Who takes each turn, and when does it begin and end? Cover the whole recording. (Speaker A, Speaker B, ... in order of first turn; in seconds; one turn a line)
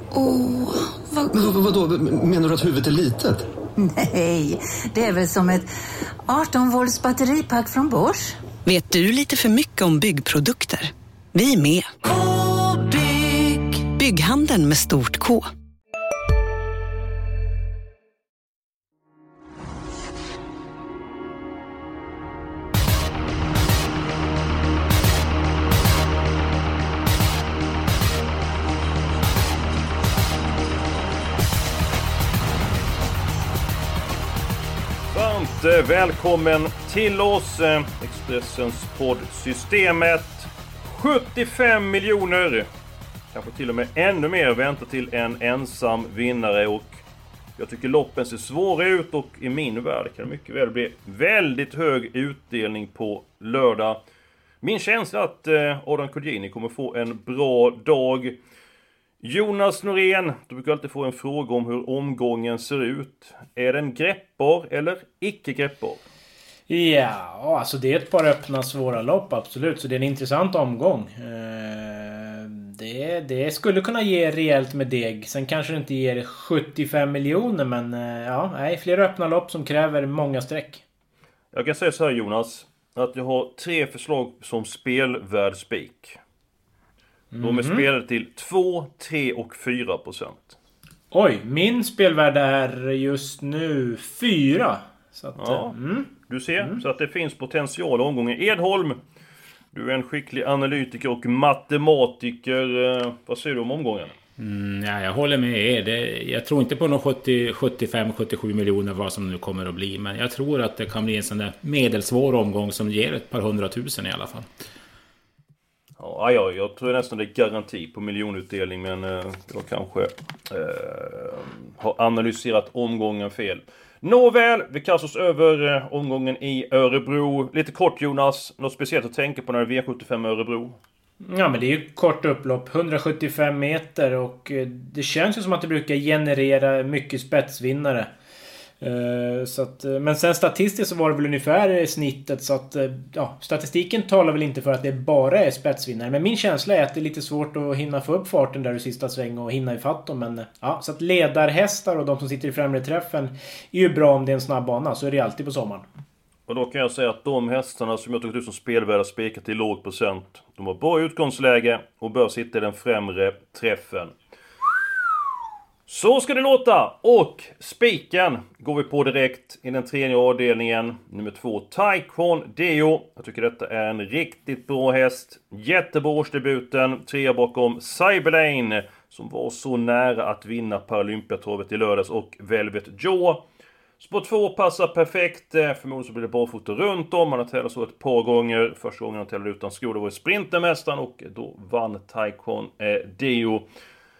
Speaker A: 0.1-0.8
Speaker B: 1.3-3.4
Speaker C: 3.8-5.7
Speaker C: 6.3-8.4
Speaker A: 8.6-12.0
Speaker C: 12.2-13.7
Speaker A: 13.8-15.5
Speaker D: 35.1-42.7
Speaker D: 43.3-47.0
Speaker D: 47.6-54.0
Speaker D: 54.6-58.4
Speaker D: 59.2-66.0
Speaker E: 66.7-80.8
Speaker D: 81.5-86.2
Speaker E: 87.3-87.8
Speaker D: 87.4-90.6
Speaker E: 91.1-96.8
Speaker D: 95.4-99.0
Speaker D: 99.7-104.1
Speaker F: 104.4-114.5
Speaker D: 116.0-130.8
Speaker E: 131.2-138.1
Speaker E: 138.8-155.8
Speaker D: 156.5-164.1
Speaker D: 165.9-183.4
Speaker D: 184.0-193.7